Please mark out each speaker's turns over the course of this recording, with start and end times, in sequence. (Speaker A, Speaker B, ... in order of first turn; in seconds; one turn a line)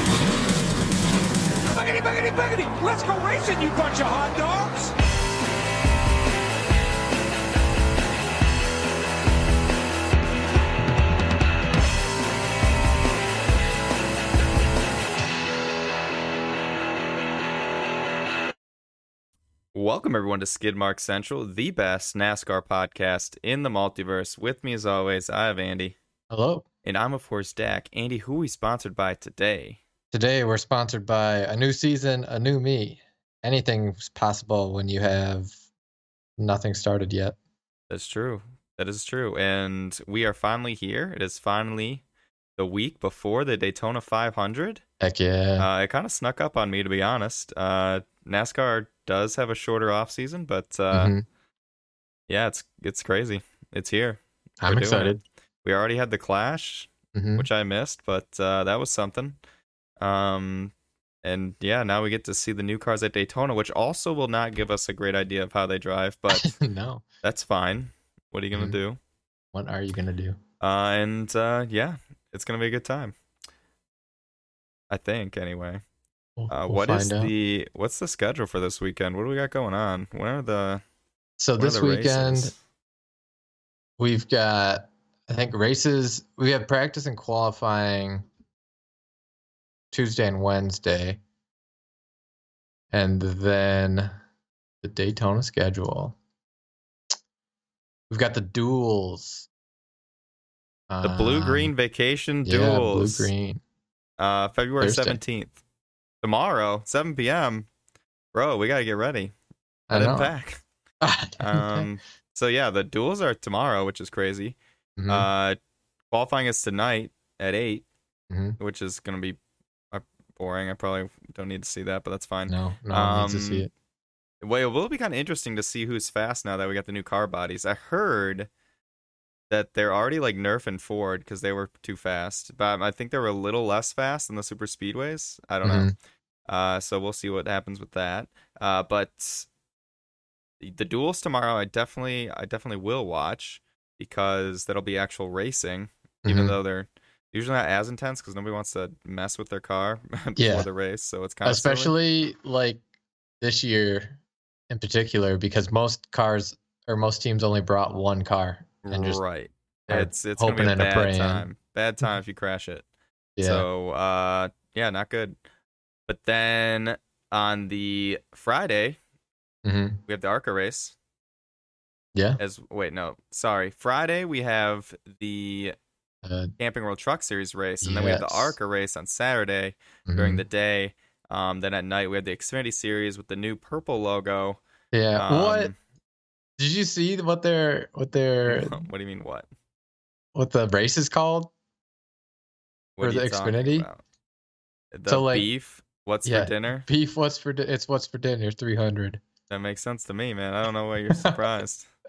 Speaker A: 1.7-4.9
Speaker B: 19.7-25.9
Speaker C: 26.3-26.6
Speaker B: 26.8-29.8
Speaker C: 30.1-35.5
Speaker C: 36.4-37.4
Speaker B: 37.9-42.0
Speaker B: 42.6-44.8
Speaker C: 45.0-45.7
Speaker B: 45.6-51.1
Speaker C: 50.9-51.2
Speaker B: 52.3-59.4
Speaker C: 54.6-55.2
Speaker C: 57.1-57.5
Speaker B: 60.0-66.5
Speaker C: 66.3-67.0
Speaker B: 67.2-69.0
Speaker C: 69.5-70.4
Speaker B: 70.6-73.1
Speaker B: 74.9-75.8
Speaker C: 76.4-77.3
Speaker B: 76.5-80.8
Speaker C: 81.4-82.5
Speaker B: 81.6-82.5
Speaker C: 84.0-88.3
Speaker C: 89.9-91.2
Speaker C: 92.9-94.1
Speaker C: 94.8-96.2
Speaker C: 98.1-99.5
Speaker C: 100.9-101.7
Speaker B: 101.0-103.3
Speaker C: 102.4-103.6
Speaker B: 104.2-105.6
Speaker C: 104.8-105.2
Speaker B: 106.2-107.7
Speaker B: 108.3-109.3
Speaker C: 109.9-110.3
Speaker B: 109.9-110.6
Speaker C: 111.0-111.9
Speaker B: 111.4-114.6
Speaker C: 115.0-115.3
Speaker B: 115.1-115.6
Speaker B: 116.1-117.8
Speaker C: 118.3-118.6
Speaker B: 118.6-119.4
Speaker B: 119.9-123.7
Speaker C: 122.5-123.7
Speaker B: 124.4-128.5
Speaker B: 129.5-135.9
Speaker C: 135.6-135.9
Speaker B: 136.5-139.5
Speaker B: 140.6-151.9
Speaker C: 146.2-146.6
Speaker C: 150.4-150.7
Speaker C: 151.4-152.8
Speaker C: 153.4-154.2
Speaker C: 154.7-159.2
Speaker B: 158.8-162.8
Speaker C: 159.9-161.5
Speaker C: 163.4-163.7
Speaker B: 163.4-165.4
Speaker B: 166.1-169.0
Speaker C: 169.6-170.0
Speaker B: 170.1-170.9
Speaker C: 172.1-172.4
Speaker B: 172.4-175.8
Speaker C: 176.2-176.5
Speaker B: 176.6-184.6
Speaker C: 177.8-178.6
Speaker C: 180.1-180.4
Speaker C: 184.9-185.7
Speaker B: 185.2-185.7
Speaker C: 186.6-188.8
Speaker B: 188.4-189.5
Speaker C: 190.3-191.5
Speaker B: 193.0-194.0
Speaker C: 193.0-193.9
Speaker B: 194.9-196.9
Speaker C: 195.1-195.5
Speaker C: 196.2-199.2
Speaker B: 199.5-201.9
Speaker C: 201.1-201.4